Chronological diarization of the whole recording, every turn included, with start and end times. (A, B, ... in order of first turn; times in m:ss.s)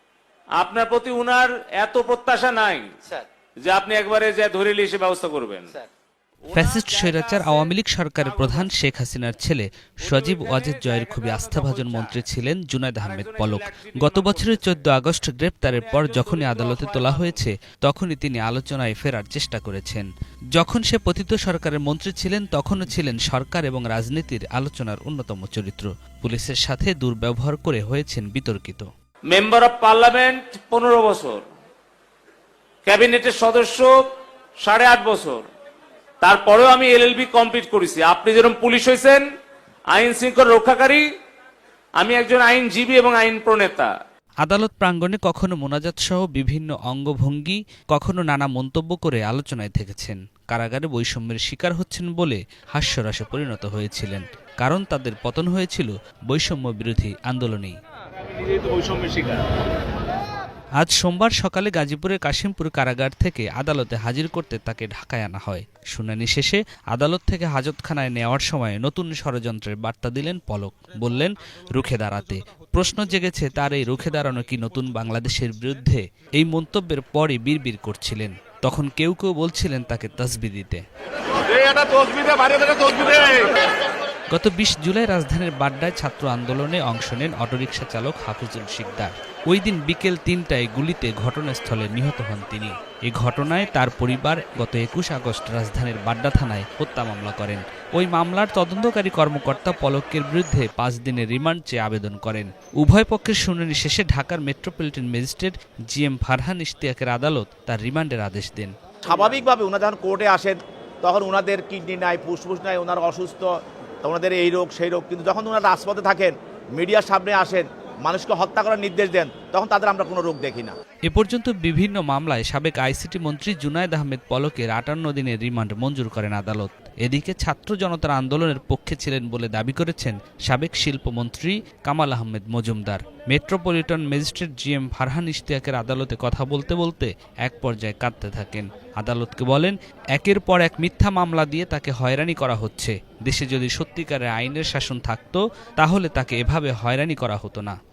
0:00.6-0:03.0 A
0:03.6-0:05.8 A
0:06.5-0:08.7 A
0:06.5-0:28.9 B
0:10.0-0:12.2 A
0:13.0-0:14.8 A
0:15.7-0:17.4 A
0:29.3-0:31.4 A
0:32.8-0:34.0 A
0:34.6-0:35.4 A
0:36.2-0:39.2 A
0:39.9-0:41.0 A
0:42.0-0:43.9 A
0:44.4-0:57.8 B
0:58.4-0:59.4 A
1:00.8-1:20.8 B
1:22.8-1:23.4 B
1:24.3-1:48.7 B
1:49.0-1:53.5 C
1:54.0-2:00.8 C
2:01.1-2:27.8 B